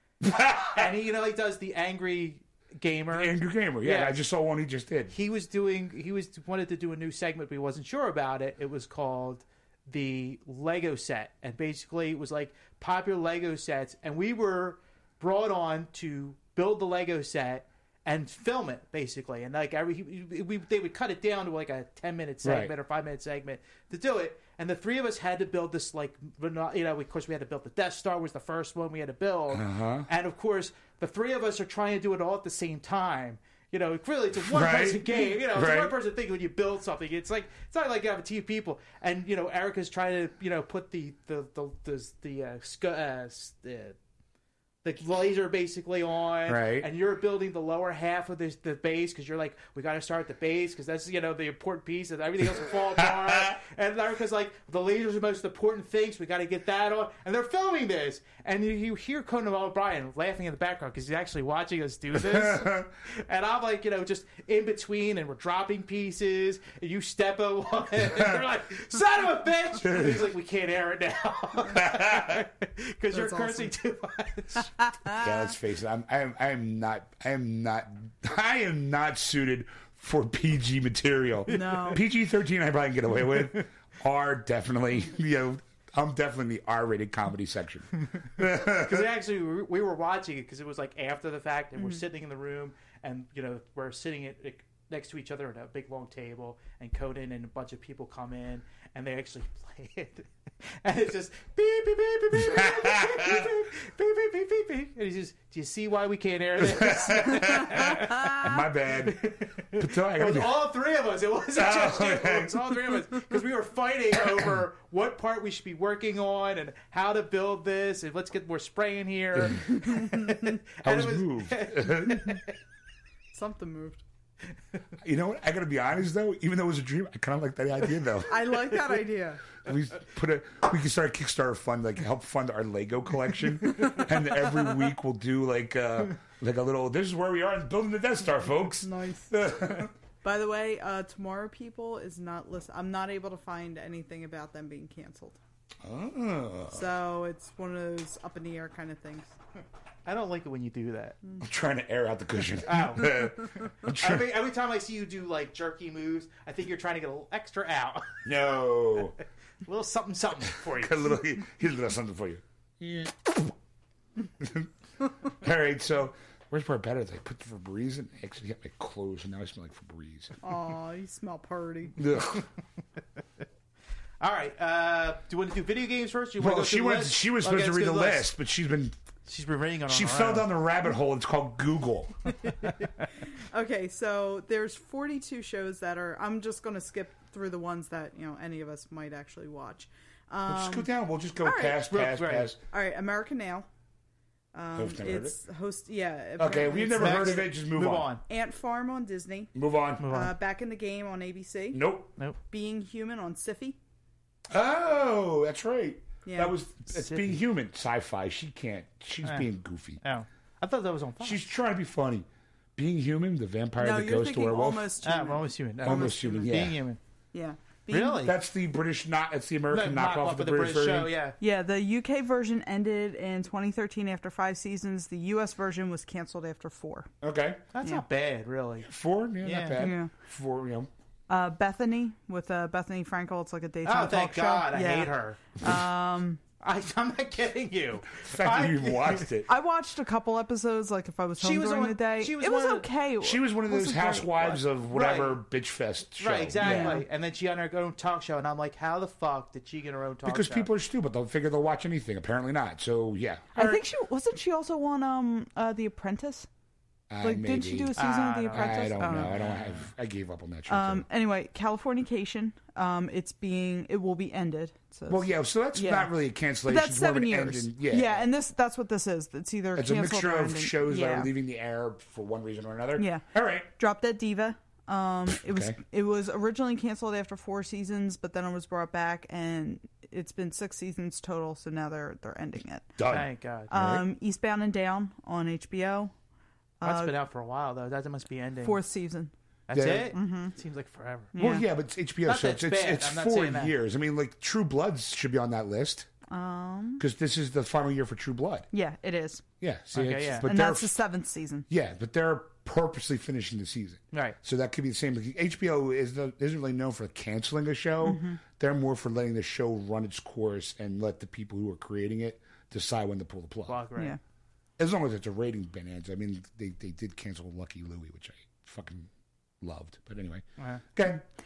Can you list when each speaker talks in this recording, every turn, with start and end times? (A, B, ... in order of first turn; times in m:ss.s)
0:00.2-0:00.9 A
0:00.7-0:04.2 B
0:03.1-0:05.1 A
0:05.1-0:44.0 B
0:22.4-0:22.7 A
0:29.5-0:30.1 A
0:34.4-0:36.0 A
0:44.8-1:14.7 B
0:46.4-0:46.9 A
0:53.3-0:53.5 A
1:02.1-1:02.9 A
1:09.8-1:10.3 A
1:11.7-1:12.4 A
1:13.1-1:13.7 C
1:15.2-1:29.1 A
1:21.5-1:22.0 C
1:28.6-2:02.6 B
1:42.3-1:43.5 A
1:46.6-1:50.7 A
1:51.5-1:52.6 A
1:59.9-2:00.3 C
2:00.8-2:02.4 A
2:03.3-2:04.0 C
2:05.0-2:08.7 A
2:08.3-2:09.4 C
2:09.6-2:19.9 A
2:18.8-2:25.4 C
2:25.8-2:26.9 A
2:26.7-2:29.4 C
2:30.0-2:31.2 B
2:31.4-2:34.3 A
2:32.6-2:38.2 B
2:38.2-2:39.2 A
2:39.6-2:41.1 B
2:40.7-2:43.5 A
2:44.4-2:44.7 A
2:45.2-2:50.4 A
2:50.4-2:52.0 C
2:52.0-2:52.5 A
2:54.2-2:58.3 B
2:56.4-2:58.9 A
2:59.3-3:00.5 B
2:59.9-3:02.3 A
3:03.4-3:10.9 C
3:10.5-3:12.6 A
3:11.4-3:11.8 C
3:11.9-3:12.5 B
3:12.7-3:13.7 C
3:14.5-3:17.5 C
3:14.7-3:15.4 A
3:16.4-3:18.1 A
3:17.0-3:18.2 B
3:18.3-3:19.5 C
3:19.5-3:20.0 A
3:20.0-3:20.3 B
3:20.0-3:21.8 C
3:21.7-3:22.1 A
3:22.5-3:23.8 C
3:24.5-3:30.0 A
3:26.2-3:26.5 C
3:26.9-3:27.4 B
3:30.0-3:31.4 B
3:31.2-3:34.9 A
3:33.8-3:36.5 C
3:35.0-3:37.0 B
3:35.8-3:36.8 A
3:37.3-3:38.3 C
3:37.9-3:38.4 B
3:38.2-3:41.1 A
3:39.7-3:41.4 B
3:41.4-3:47.1 C
3:47.2-3:47.6 A
3:47.7-3:48.9 B
3:48.8-3:50.9 A
3:49.4-3:49.8 B
3:49.8-3:50.1 C
3:51.3-3:56.4 C
3:53.8-3:55.4 B
3:56.6-3:59.3 B
3:58.2-3:59.5 A
3:59.5-4:04.5 C
4:01.4-4:02.9 B
4:03.2-4:07.0 A
4:04.9-4:05.4 B
4:06.2-4:10.7 B
4:06.6-4:07.0 C
4:10.2-4:13.8 A
4:13.5-4:16.5 C
4:17.1-4:17.9 A
4:17.2-4:19.4 C
4:18.0-4:19.8 B
4:18.5-4:21.0 A
4:20.7-4:26.1 C
4:25.1-4:28.3 A
4:26.6-4:31.3 C
4:29.7-4:33.7 A
4:33.0-4:33.2 C
4:33.8-4:42.9 C
4:35.3-4:35.8 A
4:43.0-4:44.0 A
4:43.1-4:43.7 B
4:43.7-4:46.1 C
4:46.8-4:47.1 C
4:46.8-4:48.8 B
4:48.6-4:49.3 C
4:49.7-4:51.3 B
4:49.7-4:50.1 A
4:50.1-4:50.5 C
4:51.3-4:51.6 C
4:51.4-4:56.1 A
4:52.2-4:53.7 B
4:56.3-4:57.0 C
4:57.0-4:58.7 A
4:58.7-4:59.4 C
4:59.6-5:01.0 A
4:59.9-5:00.5 B
5:00.4-5:01.6 C
5:01.7-5:13.8 A
5:08.0-5:08.4 C
5:13.7-5:14.2 B
5:14.8-5:19.1 A
5:19.6-5:21.2 A
5:20.6-5:20.8 B